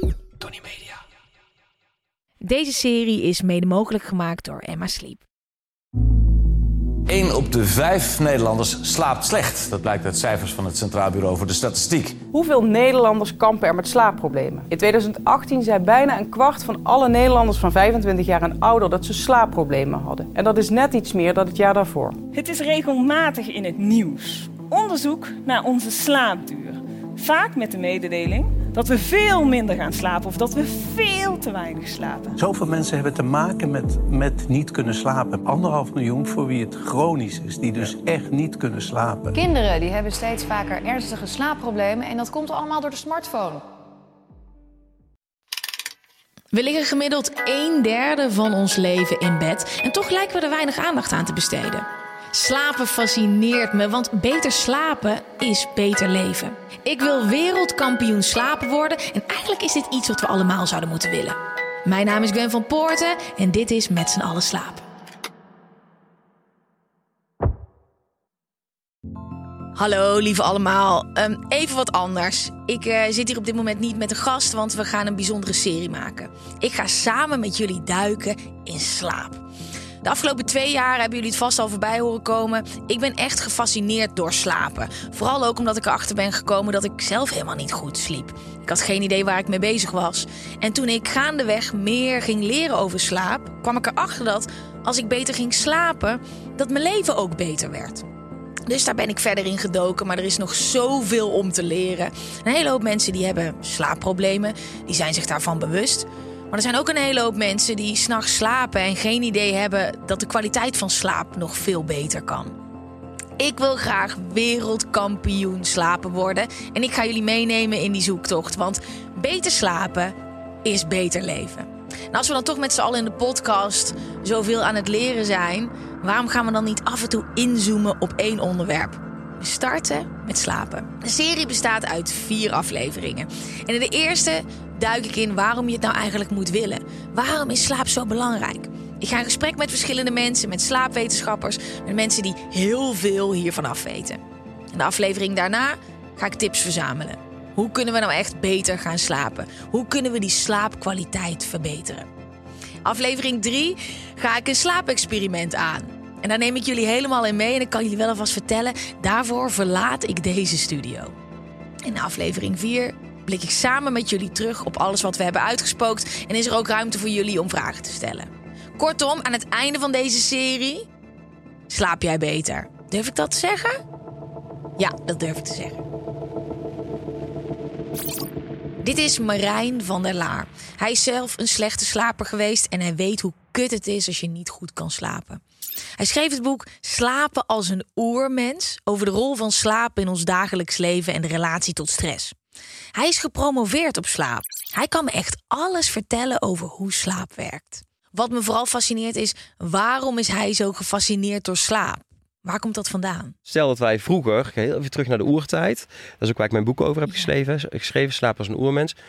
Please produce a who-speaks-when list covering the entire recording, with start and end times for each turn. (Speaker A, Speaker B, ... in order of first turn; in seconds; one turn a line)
Speaker A: 2.4-5.2
Speaker B: 7.1-12.2
Speaker C: 12.3-22.2
Speaker D: 22.3-32.4
Speaker E: 32.4-39.4
Speaker F: 39.3-43.6
Speaker A: 46.5-64.8
Speaker A: 69.8-79.4
Speaker A: 80.0-98.0
Speaker A: 98.7-112.5
Speaker A: 113.4-144.2
Speaker A: 144.7-152.1
Speaker A: 152.8-161.2
Speaker A: 161.8-170.9
Speaker A: 171.7-173.8
Speaker A: 174.8-175.8
Speaker A: 178.8-185.4
Speaker A: 186.0-192.3
Speaker A: 193.0-203.3
Speaker G: 203.5-208.9